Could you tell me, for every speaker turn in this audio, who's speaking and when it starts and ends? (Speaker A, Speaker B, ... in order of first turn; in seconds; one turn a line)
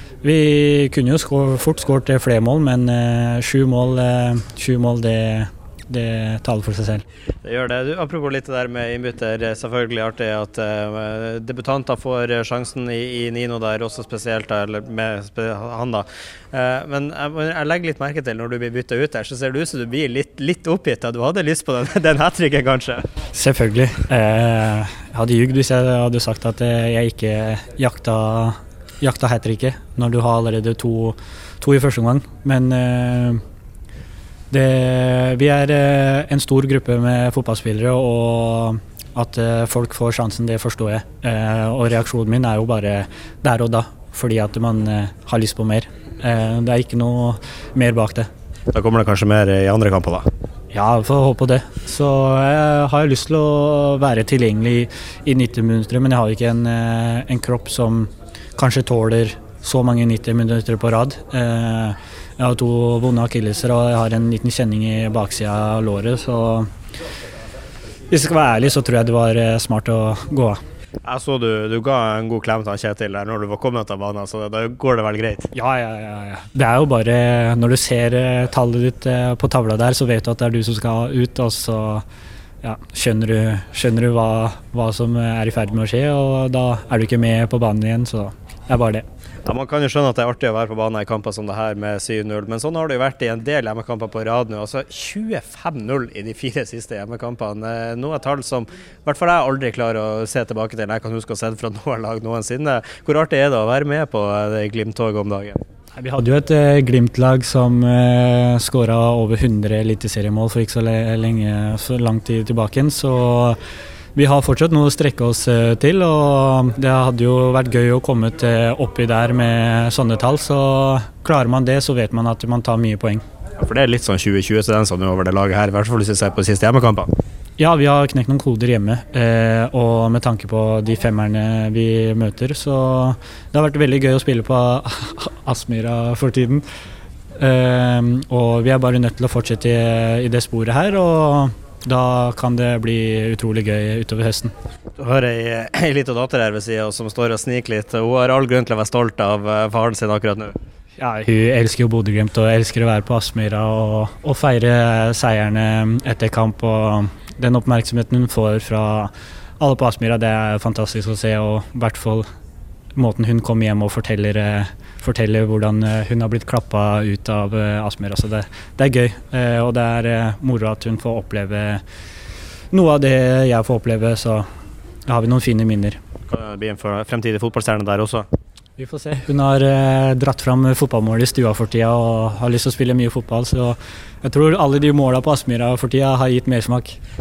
Speaker A: 0.2-7.0
Speaker B: 7.4-23.1
Speaker A: 23.3-33.4
Speaker A: 34.5-48.3
Speaker B: 48.7-50.3
Speaker A: 50.7-66.7
Speaker A: 68.1-70.6
Speaker B: 71.0-75.5
Speaker A: 75.5-82.0
Speaker A: 82.6-89.0
Speaker B: 89.5-105.6
Speaker A: 106.0-113.6
Speaker A: 114.1-123.2
Speaker B: 123.6-127.1
Speaker A: 127.6-136.6
Speaker A: 137.4-144.5
Speaker B: 145.0-150.5
Speaker A: 151.0-162.2
Speaker A: 162.9-171.8
Speaker A: 172.7-174.4
Speaker A: 175.1-176.0
Speaker B: 176.3-178.2
Speaker A: 178.8-187.0